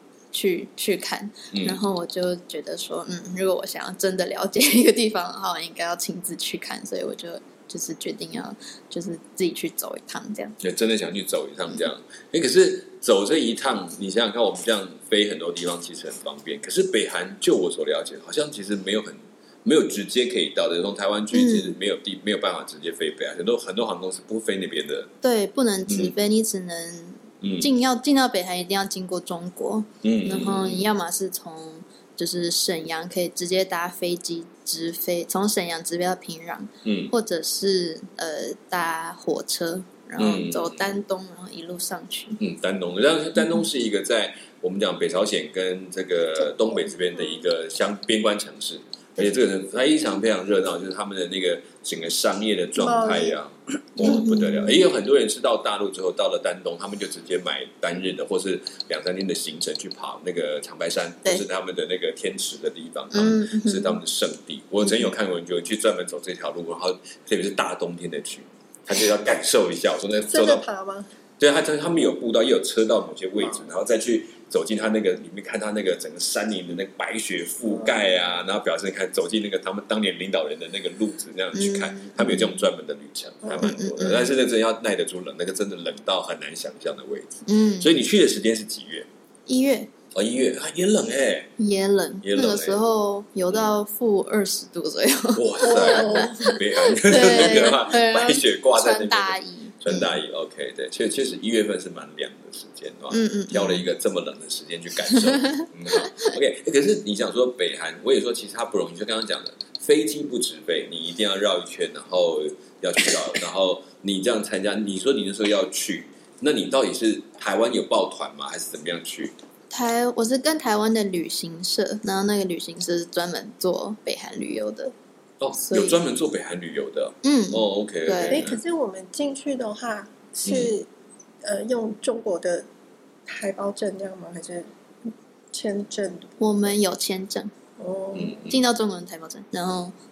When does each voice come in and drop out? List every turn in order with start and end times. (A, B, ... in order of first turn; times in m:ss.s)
0:00.3-0:10.6 A
0:01.5-0:01.8 B
0:10.6-0:25.1 B
0:21.3-0:21.7 A
0:25.2-0:42.4 A
0:25.9-0:26.1 B
0:27.4-0:27.7 B
0:30.0-0:30.8 B
0:36.8-0:37.1 B
0:40.2-0:41.0 B
0:42.4-1:10.6 B
0:52.8-0:53.4 C
0:54.0-0:54.8 A
1:03.1-1:04.0 A
1:04.8-1:05.1 A
1:10.3-1:11.1 C
1:11.4-1:29.1 B
1:21.5-1:22.6 A
1:23.4-1:23.7 C
1:23.6-1:24.3 A
1:27.4-1:27.9 A
1:29.5-1:29.9 A
1:30.1-1:31.5 B
1:31.6-1:40.2 A
1:32.2-1:32.8 B
1:35.3-1:59.3 B
1:35.6-1:36.6 C
1:37.3-1:37.7 C
1:43.1-1:43.9 A
1:45.1-1:46.3 A
1:59.7-2:04.9 A
2:05.4-2:08.6 B
2:05.6-2:06.0 A
2:07.2-2:08.4 A
2:08.3-2:10.9 C
2:10.4-2:10.7 B
2:11.4-2:12.7 C
2:13.3-2:16.7 C
2:16.4-2:17.5 A
2:17.8-2:18.4 C
2:18.1-2:18.6 B
2:18.5-2:19.9 A